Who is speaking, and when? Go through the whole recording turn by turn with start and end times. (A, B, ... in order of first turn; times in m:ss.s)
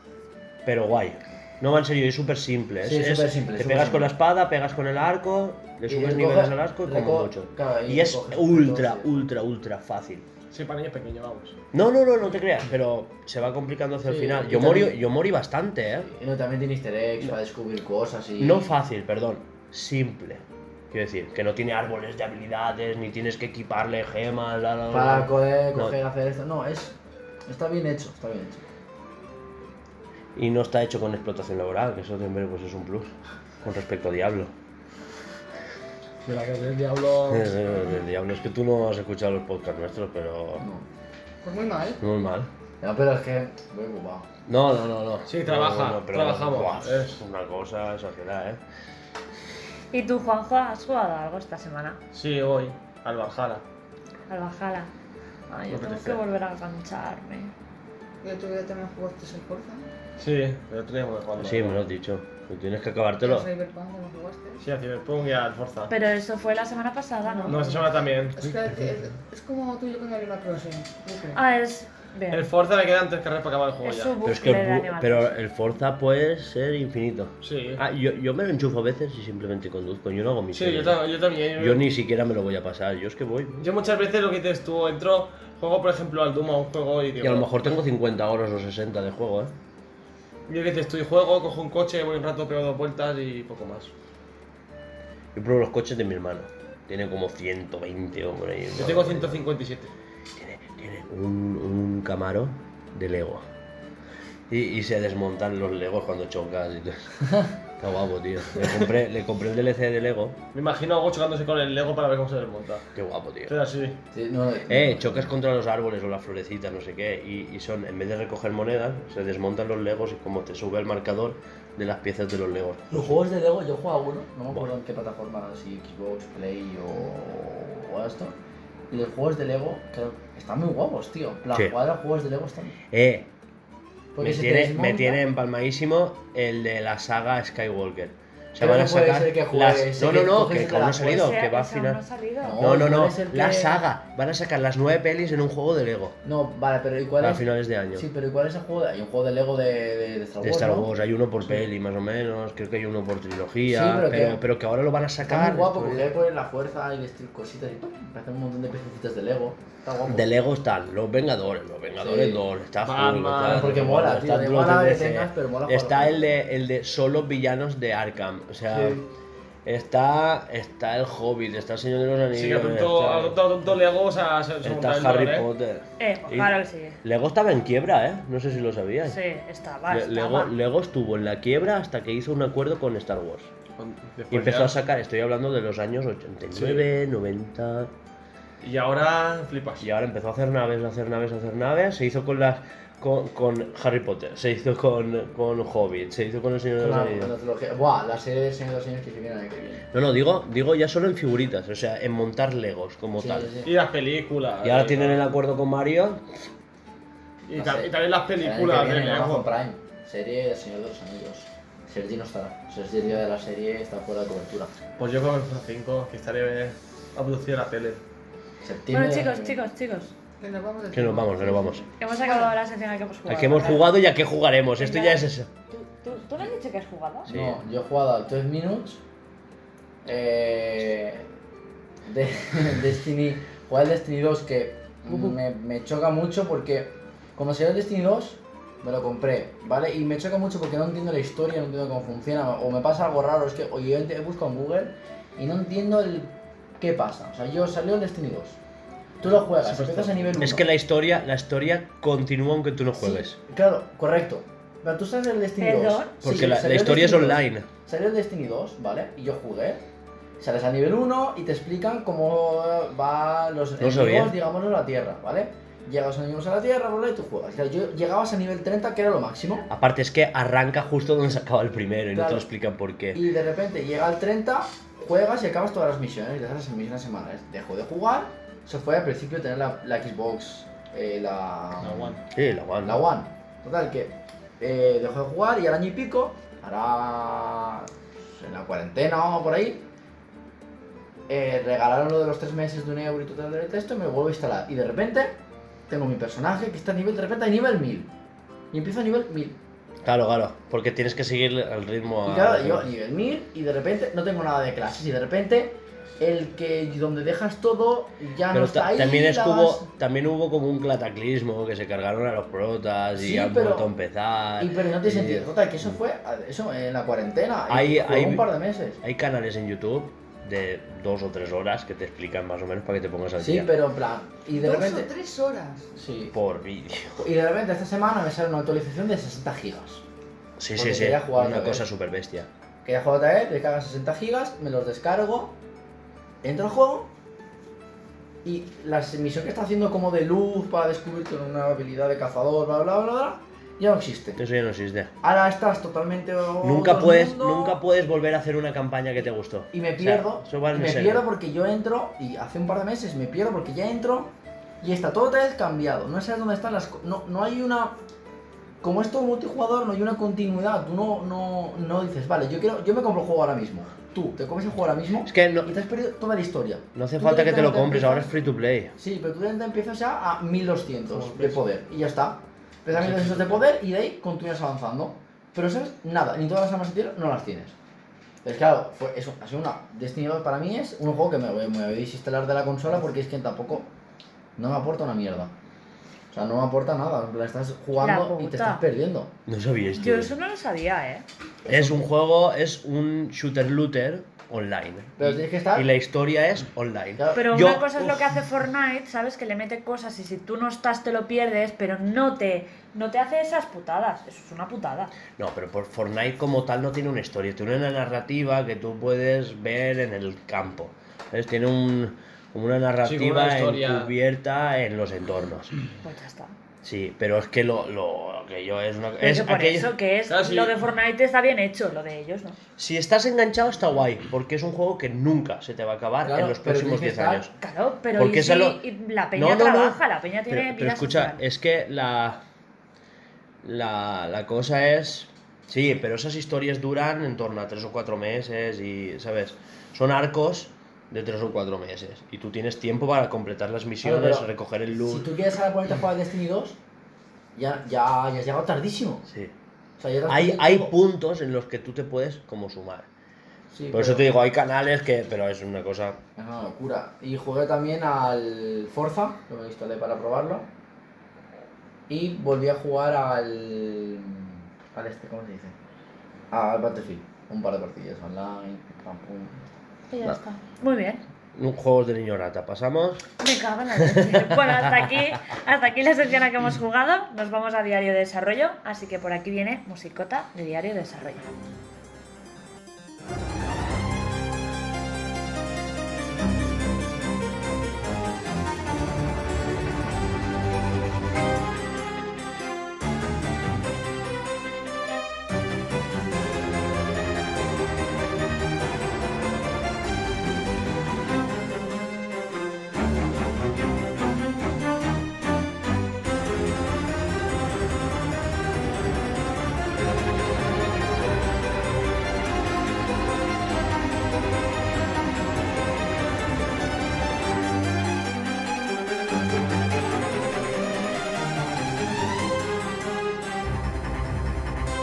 0:00.6-0:10.3 A
0:02.8-0:04.1 B
0:05.9-0:09.1 B
0:10.5-0:11.6 C
0:11.7-0:16.1 A
0:14.1-0:15.0 B
0:16.1-0:18.7 B
0:18.4-0:26.0 A
0:24.9-0:27.0 B
0:27.5-0:28.6 B
0:30.4-0:34.5 A
0:36.2-0:37.7 C
0:37.3-0:40.7 A
0:40.6-0:40.9 B
0:41.4-0:42.0 D
0:42.0-0:42.5 A
0:42.8-0:44.3 B
0:44.5-0:48.6 A
0:45.3-0:47.2 C
0:49.9-0:52.0 E
0:52.1-0:53.6 C
0:54.3-0:54.9 E
0:55.5-0:57.5 E
0:55.7-0:56.2 C
0:58.2-0:59.9 D
1:00.2-1:01.8 C
1:01.4-1:03.5 A
1:03.2-1:04.6 D
1:04.6-1:05.9 C
1:05.9-1:07.8 E
1:07.2-1:11.4 D
1:07.5-1:08.6 C
1:11.3-1:12.5 E
1:12.3-1:14.2 C
1:13.8-1:15.3 E
1:14.2-1:21.0 A
1:17.4-1:17.8 C
1:20.5-1:21.8 C
1:21.6-1:23.5 A
1:23.6-1:27.5 C
1:27.2-1:29.5 A
1:30.5-1:33.9 C
1:35.4-1:39.4 A
1:38.7-1:39.9 C
1:40.4-1:43.4 A
1:44.5-1:47.2 A
1:47.8-1:50.4 A
1:50.5-1:52.8 C
1:53.0-1:53.6 A
1:53.5-1:54.0 C
1:54.1-1:55.3 B
1:54.7-2:03.2 A
2:02.9-2:08.4 B
2:08.9-2:12.8 B
2:12.9-2:13.3 A
2:14.1-2:15.2 B
2:14.2-2:22.0 A
2:18.6-2:21.3 B
2:21.1-2:22.6 E
2:22.4-2:23.8 B
2:22.6-2:26.2 A
2:26.2-2:30.9 B
2:27.2-2:28.1 A
2:30.4-2:36.1 A
2:33.6-2:34.4 B
2:35.2-2:40.3 B
2:40.1-2:49.1 A
2:42.0-2:42.4 B
2:42.8-2:43.8 C
2:43.4-2:46.4 B
2:48.7-2:49.0 C
2:49.6-2:53.4 A
2:52.3-2:55.5 C
2:54.6-2:59.2 A
2:56.0-2:57.0 E
2:59.1-3:00.5 E
2:59.9-3:03.5 A
3:03.8-3:04.7 C
3:04.3-3:07.9 A
3:06.5-3:06.9 C
3:08.6-3:09.9 C
3:09.8-3:17.3 A
3:16.8-3:19.8 B
3:19.9-3:23.6 A
3:23.2-3:23.7 B
3:23.6-3:25.3 C
3:24.6-3:26.4 A
3:27.5-3:29.5 C
3:27.5-3:34.7 B
3:35.0-3:38.0 C
3:38.6-3:39.6 B
3:38.9-3:40.1 E
3:40.4-3:42.5 D
3:40.9-3:41.9 A
3:42.0-3:43.9 E
3:43.3-3:45.5 A
3:44.8-3:47.3 E
3:47.3-3:47.6 A
3:47.3-3:49.0 B
3:50.0-3:51.3 B
3:52.1-4:08.6 B
4:09.2-4:10.7 B
4:09.4-4:10.4 C
4:10.4-4:13.4 A
4:13.0-4:19.8 B
4:15.6-4:16.2 E
4:16.2-4:17.7 A
4:20.4-4:29.7 B
4:23.8-4:24.3 A
4:29.7-4:33.2 A
4:32.1-4:32.5 B
4:33.1-4:42.2 B
4:41.8-4:42.2 C
4:42.3-4:43.0 A
4:42.8-4:49.9 B
4:51.3-4:55.4 B
4:55.9-4:58.1 B
4:58.7-4:59.6 B
5:00.0-5:02.9 A
5:02.2-5:09.9 B
5:08.5-5:16.0 A
5:13.2-5:13.9 B
5:14.6-5:19.0 B
5:17.7-5:18.5 A
5:19.0-5:23.7 A
5:23.4-5:25.1 B
5:24.5-5:25.9 D
5:26.0-5:26.4 B
5:26.3-5:27.2 A
5:27.2-5:30.0 B
5:30.6-5:32.5 A
5:30.8-5:31.8 B
5:32.8-5:35.6 B
5:36.4-5:37.1 B
5:38.4-5:44.4 B
5:44.4-5:45.1 A
5:45.2-5:47.8 B
5:46.6-5:51.2 A
5:49.7-5:58.0 B
5:58.8-6:08.3 B
6:05.2-6:05.7 A
6:07.0-6:09.0 A
6:09.0-6:17.7 B
6:11.1-6:11.6 C
6:13.1-6:13.4 C
6:18.4-6:23.9 B
6:24.6-6:25.5 B
6:26.3-6:29.3 B
6:28.0-6:28.8 E
6:29.5-6:30.3 A
6:30.0-6:31.3 E
6:31.7-6:32.0 B
6:31.7-6:37.9 A
6:35.2-6:35.9 B
6:37.2-6:37.5 B
6:37.3-6:45.1 E
6:45.4-6:55.8 A
6:53.0-6:54.1 C
6:56.0-6:56.6 E
6:56.8-6:59.9 A
6:59.2-7:02.6 E
7:00.3-7:00.8 C
7:02.8-7:07.5 A
7:06.2-7:07.5 B
7:07.6-7:11.4 E
7:08.2-7:08.8 A
7:09.3-7:12.4 A
7:13.6-7:25.3 A
7:24.0-7:26.8 B
7:27.6-7:29.3 B
7:30.0-7:31.0 B
7:30.3-7:33.1 A
7:33.7-7:34.3 B
7:33.9-7:36.2 A
7:36.4-7:40.7 B
7:42.1-7:45.8 B
7:46.5-7:49.7 B
7:50.1-7:51.2 E
7:51.6-7:53.3 A
7:53.4-8:01.5 E
7:54.1-7:54.4 A